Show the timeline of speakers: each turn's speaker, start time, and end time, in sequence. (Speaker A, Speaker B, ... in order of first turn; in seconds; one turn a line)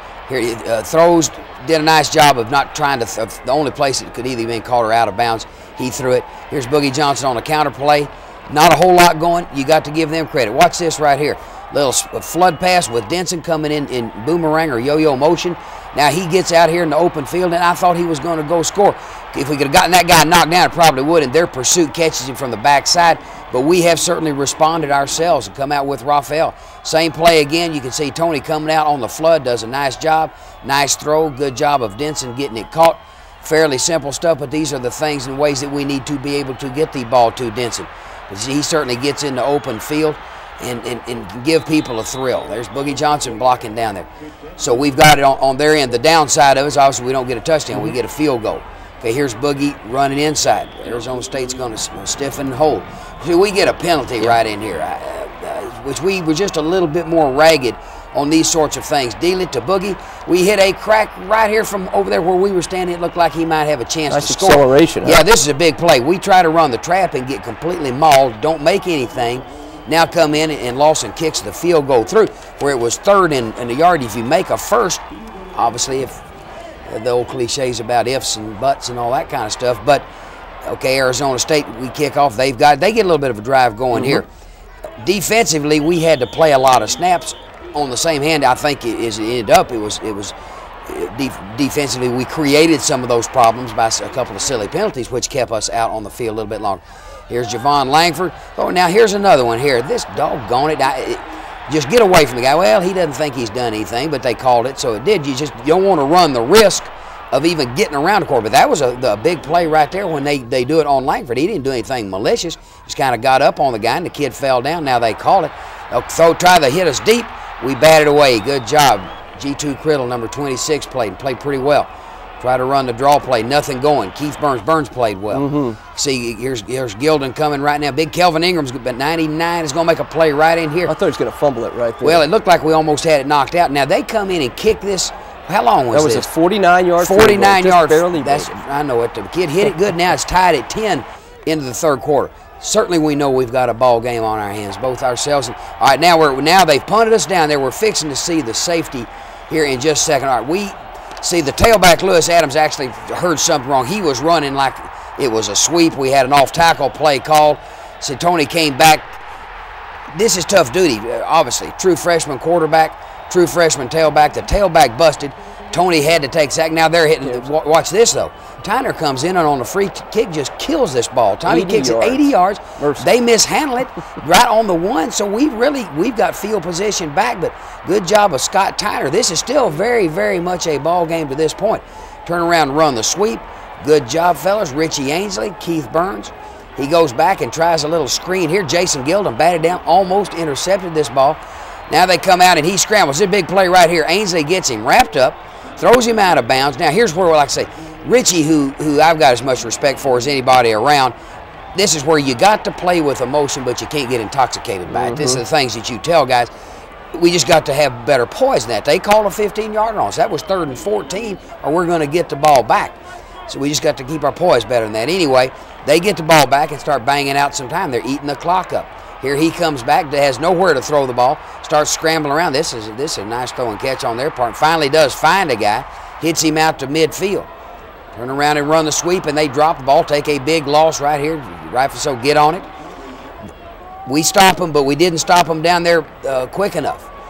Speaker A: 0.3-76.2
Speaker B: 64.1-65.2
Speaker A: 76.8-80.0
Speaker A: 80.6-84.3
Speaker B: 84.0-84.2
Speaker A: 85.0-90.3
Speaker A: 90.8-130.9
Speaker B: 125.3-125.8
Speaker B: 130.8-132.2
Speaker A: 132.0-136.3
Speaker B: 135.9-138.5
Speaker A: 137.0-159.2
Speaker A: 160.1-201.1
Speaker B: 171.4-173.1
Speaker A: 201.7-206.5
Speaker B: 204.9-205.4
Speaker A: 207.1-227.5
Speaker A: 228.1-232.7
Speaker A: 234.1-237.1